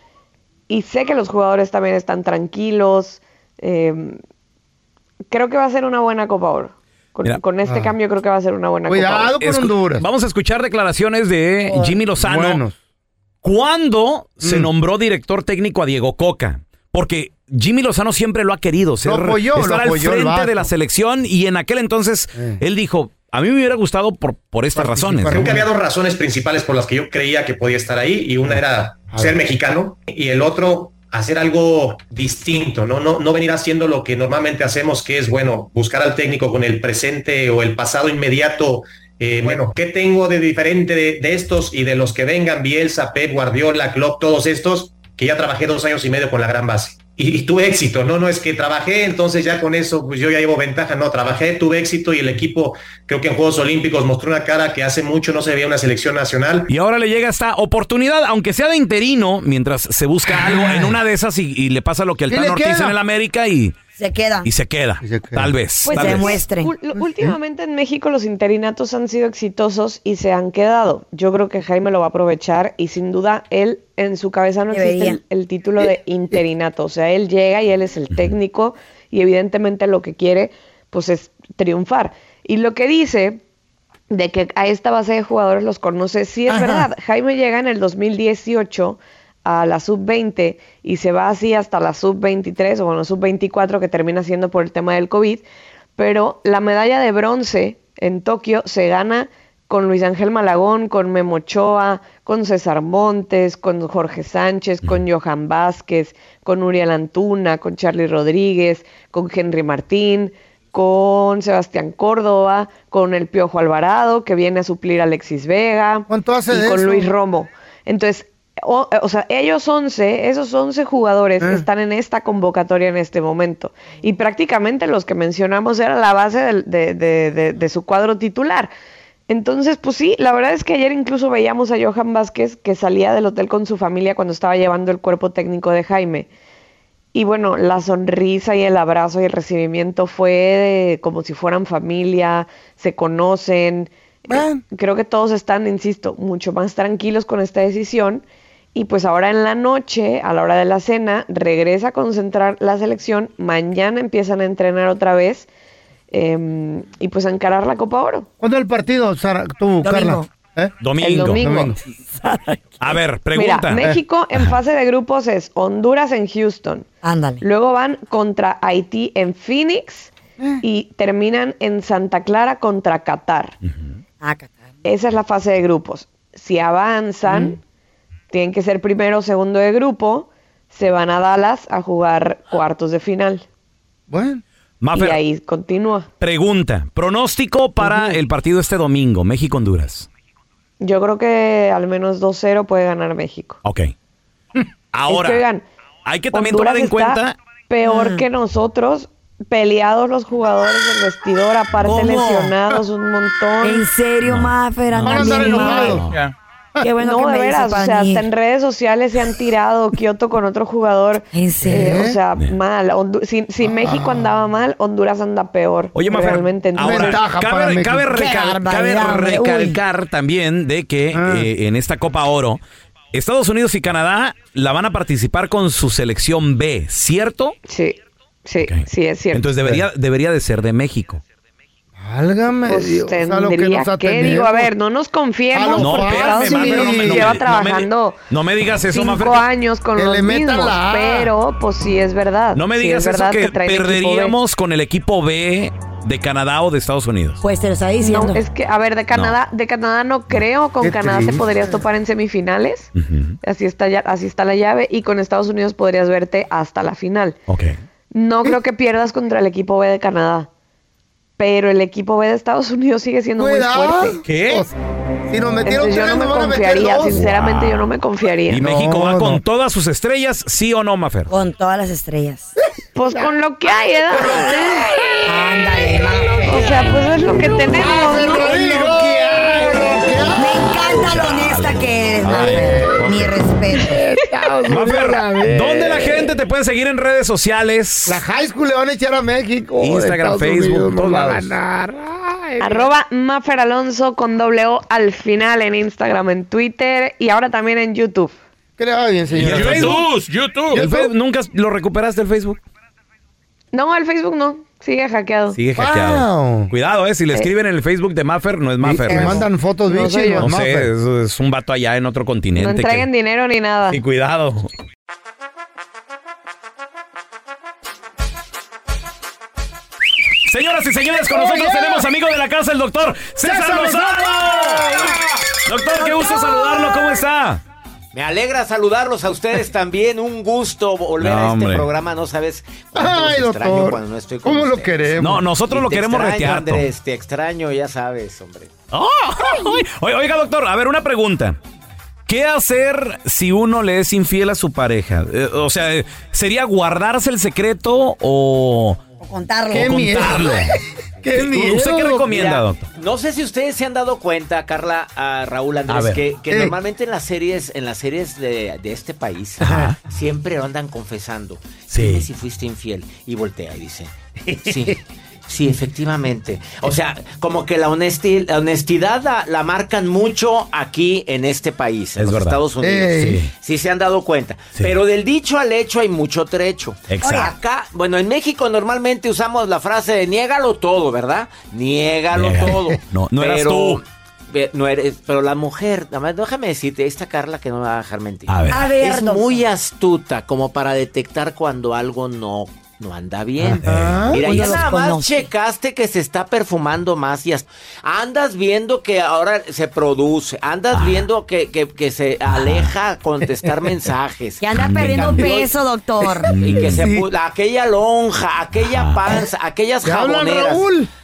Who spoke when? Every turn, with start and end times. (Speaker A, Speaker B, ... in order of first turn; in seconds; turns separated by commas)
Speaker A: 0.7-4.2, Speaker A: 5.3-9.3, Speaker B: 7.7-7.9, Speaker B: 8.9-10.1, Speaker C: 9.4-12.6, Speaker B: 11.7-12.8, Speaker C: 13.4-25.6, Speaker B: 14.4-14.7, Speaker B: 19.1-20.7, Speaker B: 22.4-22.6, Speaker B: 24.8-25.7, Speaker D: 25.3-56.7, Speaker B: 29.1-29.4, Speaker C: 56.7-63.8, Speaker B: 60.4-60.9, Speaker B: 62.3-63.0, Speaker E: 64.0-64.5, Speaker C: 64.5-66.4, Speaker B: 65.0-65.5, Speaker A: 65.8-83.4, Speaker E: 65.9-66.7, Speaker B: 67.0-67.3, Speaker E: 74.7-75.2, Speaker A: 84.1-95.5, Speaker B: 86.5-86.9, Speaker A: 96.0-128.7, Speaker B: 116.1-117.1, Speaker B: 121.4-121.7, Speaker A: 129.3-136.3, Speaker A: 137.1-148.2, Speaker B: 144.3-144.6, Speaker A: 148.8-155.5, Speaker A: 156.1-158.3, Speaker B: 158.4-160.7, Speaker E: 159.8-160.3, Speaker C: 160.8-161.5, Speaker A: 161.0-161.8, Speaker B: 161.4-161.8, Speaker E: 162.2-162.6, Speaker C: 162.8-163.8, Speaker A: 163.3-166.9, Speaker E: 167.0-167.4, Speaker A: 167.4-173.6, Speaker E: 174.2-174.5, Speaker A: 174.8-177.6, Speaker B: 177.3-177.5, Speaker A: 178.3-183.4, Speaker B: 184.1-184.4, Speaker C: 184.8-185.2, Speaker A: 184.9-186.1, Speaker C: 186.2-190.1, Speaker A: 190.8-193.6, Speaker C: 193.6-193.9, Speaker C: 194.9-195.4, Speaker A: 195.1-195.7, Speaker C: 196.1-197.3, Speaker A: 196.3-203.9, Speaker E: 197.8-198.2, Speaker E: 201.9-202.5, Speaker E: 203.6-206.1, Speaker C: 204.2-206.3, Speaker B: 205.1-206.1, Speaker A: 205.5-205.8, Speaker E: 206.8-208.2, Speaker A: 207.0-217.2, Speaker E: 211.3-212.0, Speaker B: 211.6-212.2, Speaker B: 213.6-214.3, Speaker C: 215.9-222.6, Speaker B: 216.8-218.1, Speaker E: 218.1-219.8, Speaker B: 221.1-221.5, Speaker C: 223.1-227.6, Speaker A: 227.7-229.4, Speaker C: 228.6-231.2, Speaker B: 232.0-234.7, Speaker A: 232.7-238.2, Speaker B: 235.5-237.4, Speaker C: 235.8-239.5, Speaker A: 238.9-244.4, Speaker B: 240.0-241.3, Speaker C: 242.6-247.4, Speaker E: 247.4-248.4, Speaker A: 248.0-252.9, Speaker B: 250.8-251.7, Speaker C: 252.9-253.4, Speaker A: 253.4-257.4, Speaker C: 257.5-257.8, Speaker A: 258.1-260.5, Speaker A: 261.4-264.2, Speaker B: 263.4-264.7, Speaker C: 264.2-264.6, Speaker B: 265.3-267.3, Speaker A: 265.6-268.6, Speaker C: 267.2-267.9, Speaker C: 268.5-271.3, Speaker B: 268.6-269.4, Speaker E: 271.3-272.5, Speaker A: 272.9-274.7, Speaker B: 274.1-276.7, Speaker E: 275.3-276.7, Speaker A: 276.4-278.7, Speaker B: 277.7-281.2, Speaker C: 278.6-279.0, Speaker E: 280.4-284.0, Speaker C: 281.0-283.4, Speaker B: 282.2-283.2, Speaker B: 283.8-286.4, Speaker A: 284.4-284.9, Speaker C: 284.7-288.2, Speaker B: 288.1-292.9, Speaker C: 289.8-291.5, Speaker A: 292.6-298.4, Speaker B: 298.8-300.1, Speaker C: 299.4-302.6, Speaker B: 300.7-301.1, Speaker A: 303.7-305.6, Speaker C: 305.5-309.4, Speaker B: 305.8-306.7, Speaker B: 308.8-310.9, Speaker A: 309.1-310.5, Speaker C: 310.4-313.1, Speaker A: 312.6-314.0, Speaker C: 313.9-314.7, Speaker C: 320.5-327.6, Speaker B: 321.3-322.1, Speaker B: 323.4-325.4, Speaker B: 325.9-327.0, Speaker F: 328.1-338.7, Speaker C: 331.2-331.9, Speaker B: 332.9-335.4, Speaker C: 335.2-336.9, Speaker C: 338.9-341.6, Speaker B: 339.4-339.8, Speaker C: 342.3-349.0, Speaker E: 349.2-350.0, Speaker B: 349.7-352.3, Speaker C: 349.7-350.8, Speaker C: 351.3-352.9, Speaker F: 352.2-405.8, Speaker C: 355.9-356.2, Speaker B: 356.5-356.8, Speaker C: 359.6-360.0, Speaker B: 359.7-359.9, Speaker C: 361.9-362.3, Speaker C: 372.2-372.6, Speaker B: 372.8-373.4, Speaker C: 373.2-373.5, Speaker C: 377.1-377.5, Speaker E: 377.2-377.5, Speaker C: 382.3-384.0, Speaker B: 382.6-382.9, Speaker C: 388.5-388.8, Speaker E: 388.7-389.6, Speaker C: 393.6-394.4, Speaker B: 393.8-394.8, Speaker E: 394.4-395.5, Speaker C: 400.9-401.3, Speaker C: 402.5-402.9, Speaker E: 404.6-406.5, Speaker C: 404.8-405.4, Speaker F: 406.4-410.9, Speaker C: 406.5-407.1, Speaker B: 406.8-407.3, Speaker C: 408.8-409.2, Speaker B: 410.0-411.1